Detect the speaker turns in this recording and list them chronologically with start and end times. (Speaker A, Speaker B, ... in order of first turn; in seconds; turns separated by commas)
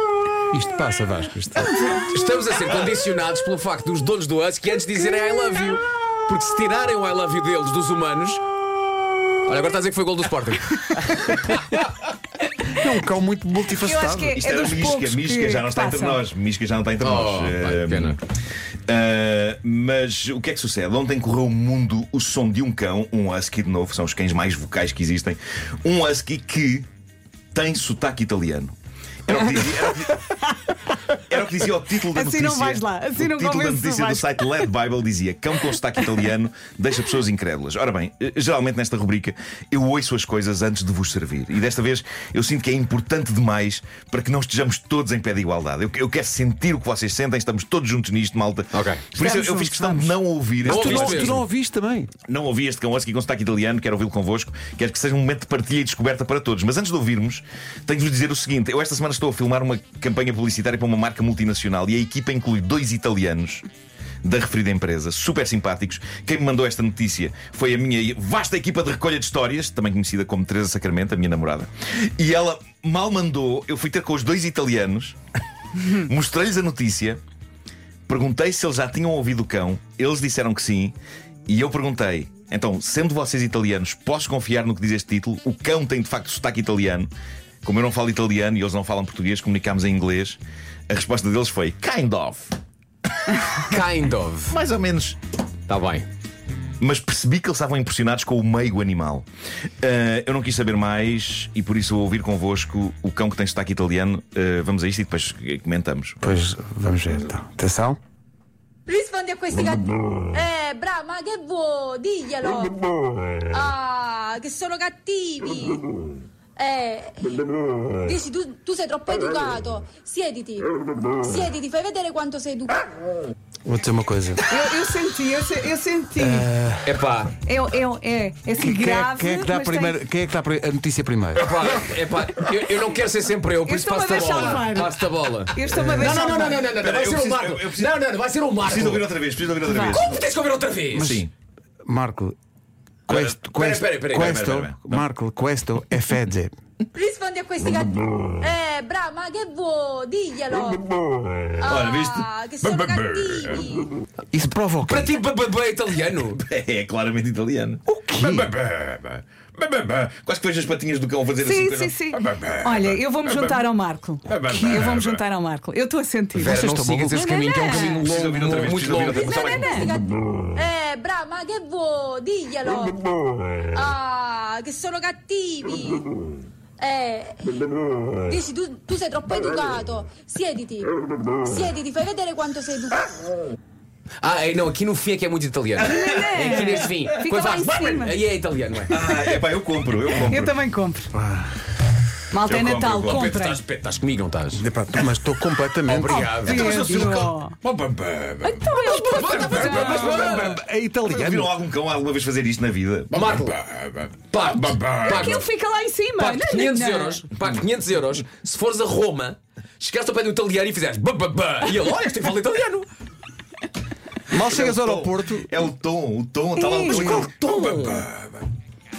Speaker A: 0.5-1.9, Speaker B: 1.7-2.0, Speaker C: 2.1-8.4, Speaker C: 9.4-11.5, Speaker A: 12.7-14.4, Speaker B: 13.7-16.2, Speaker D: 14.3-18.2, Speaker C: 17.0-18.2, Speaker D: 18.9-26.9, Speaker D: 27.5-28.7, Speaker D: 29.3-30.2, Speaker B: 30.3-30.7, Speaker D: 31.3-51.4, Speaker B: 32.1-34.7, Speaker C: 48.7-49.1, Speaker B: 49.1-50.1, Speaker C: 50.6-51.4, Speaker A: 50.6-52.1, Speaker D: 52.3-63.6, Speaker D: 64.2-75.2, Speaker D: 75.8-77.2, Speaker D: 78.1-81.0, Speaker D: 81.5-87.1, Speaker D: 87.6-92.5, Speaker C: 93.6-94.5, Speaker D: 94.5-95.2, Speaker C: 95.7-96.0, Speaker D: 96.8-99.2, Speaker D: 99.8-106.2, Speaker A: 106.2-108.0, Speaker E: 108.9-112.8, Speaker E: 113.5-115.8, Speaker E: 116.6-117.4, Speaker E: 118.0-122.8, Speaker A: 123.7-124.4, Speaker B: 124.5-126.5, Speaker A: 126.2-126.9, Speaker C: 126.8-127.3, Speaker B: 127.4-130.0, Speaker A: 128.6-131.5, Speaker C: 131.3-139.1, Speaker B: 133.6-136.7, Speaker D: 136.7-137.9, Speaker D: 138.6-140.1, Speaker C: 139.7-141.1, Speaker A: 140.9-141.3, Speaker D: 140.9-141.3, Speaker A: 141.8-142.3, Speaker A: 143.1-146.5, Speaker D: 143.1-143.3, Speaker C: 143.5-144.4, Speaker D: 144.1-145.0, Speaker E: 146.9-150.8, Speaker E: 151.6-153.9, Speaker D: 151.7-153.6, Speaker A: 154.3-155.2, Speaker C: 154.8-156.4, Speaker D: 156.4-163.6, Speaker A: 157.8-158.5, Speaker B: 161.4-168.0, Speaker D: 164.3-165.2, Speaker C: 166.4-169.3, Speaker A: 166.4-167.3, Speaker D: 167.7-169.9, Speaker E: 169.0-173.0, Speaker B: 169.5-169.9, Speaker E: 173.7-176.1, Speaker E: 176.8-177.6, Speaker E: 178.2-180.9, Speaker E: 181.4-183.2, Speaker C: 184.2-189.0, Speaker B: 185.8-188.2, Speaker D: 188.9-190.6, Speaker B: 190.2-191.1, Speaker A: 191.1-191.4, Speaker B: 192.3-193.6, Speaker D: 192.3-193.2, Speaker C: 193.0-194.6, Speaker A: 194.5-196.4, Speaker C: 195.8-196.8, Speaker B: 196.1-197.5, Speaker D: 196.4-197.3, Speaker C: 197.6-200.6, Speaker B: 198.4-200.4, Speaker D: 199.4-203.5, Speaker A: 199.5-201.5, Speaker C: 203.1-205.5, Speaker B: 204.9-207.2, Speaker C: 206.2-212.9, Speaker A: 214.3-215.5, Speaker D: 214.3-218.2, Speaker B: 216.6-217.2, Speaker C: 217.0-218.1